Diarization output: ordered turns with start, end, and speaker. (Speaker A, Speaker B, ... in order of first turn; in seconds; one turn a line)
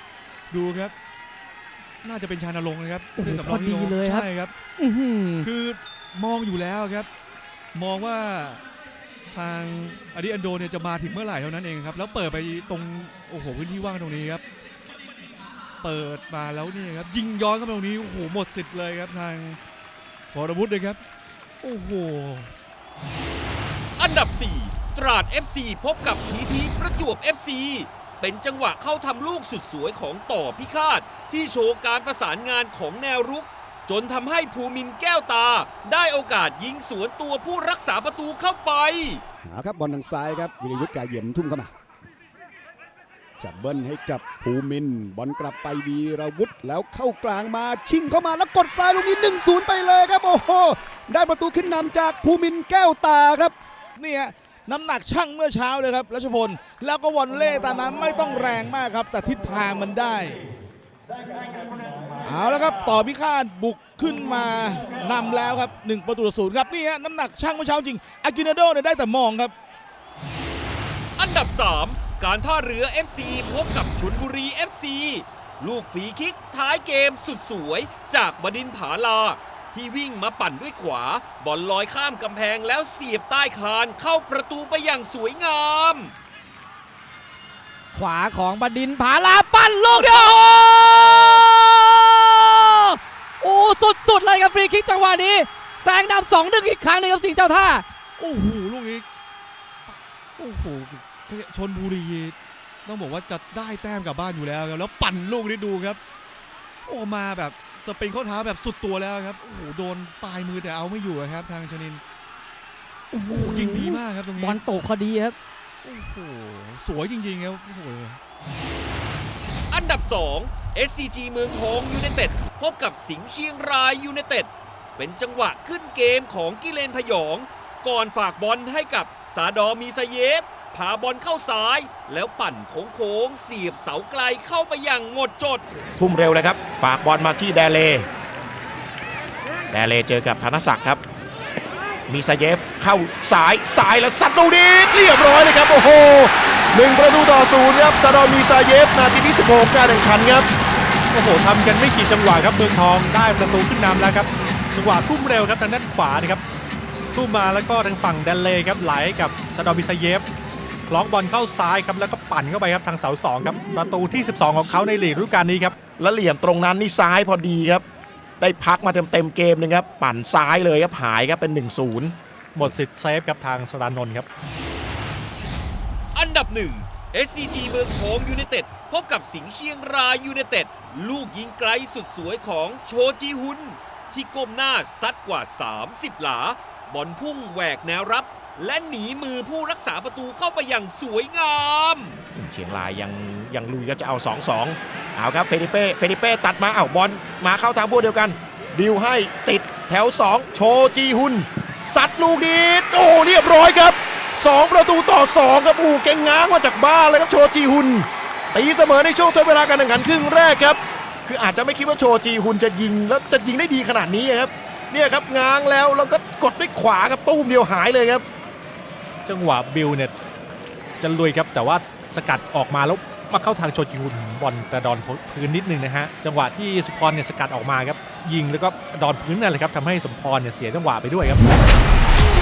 Speaker A: 0.5-0.9
Speaker A: 2.0-4.5
Speaker B: 3.1-5.5
Speaker A: 5.5-7.1
Speaker A: 7.7-8.6
Speaker A: 9.3-14.4
Speaker A: 15.8-19.6
Speaker A: 20.3-21.0
Speaker A: 21.6-22.6
Speaker C: 24.0-39.2
Speaker D: 39.4-41.7
Speaker D: 43.4-53.5
Speaker E: 54.0-60.4
Speaker E: 62.2-69.5
Speaker C: 71.2-86.1
Speaker B: 87.9-97.8
Speaker C: 89.9-91.3
Speaker A: 98.2-99.0
Speaker A: 99.9-106.0
Speaker A: 106.9-112.0
Speaker B: 113.1-115.4
Speaker A: 113.3-114.6
Speaker A: 115.8-118.2
Speaker C: 119.7-135.6
Speaker F: 136.0-138.1
Speaker F: 139.7-141.0
Speaker F: 142.1-150.5
Speaker G: 151.1-156.4
Speaker G: 157.1-160.3
Speaker G: 160.9-165.7
Speaker F: 166.0-167.8
Speaker F: 168.4-172.2
Speaker G: 172.6-174.3
Speaker C: 176.2-192.2
Speaker F: 192.3-218.2
Speaker G: 219.2-220.1
Speaker G: 221.0-231.4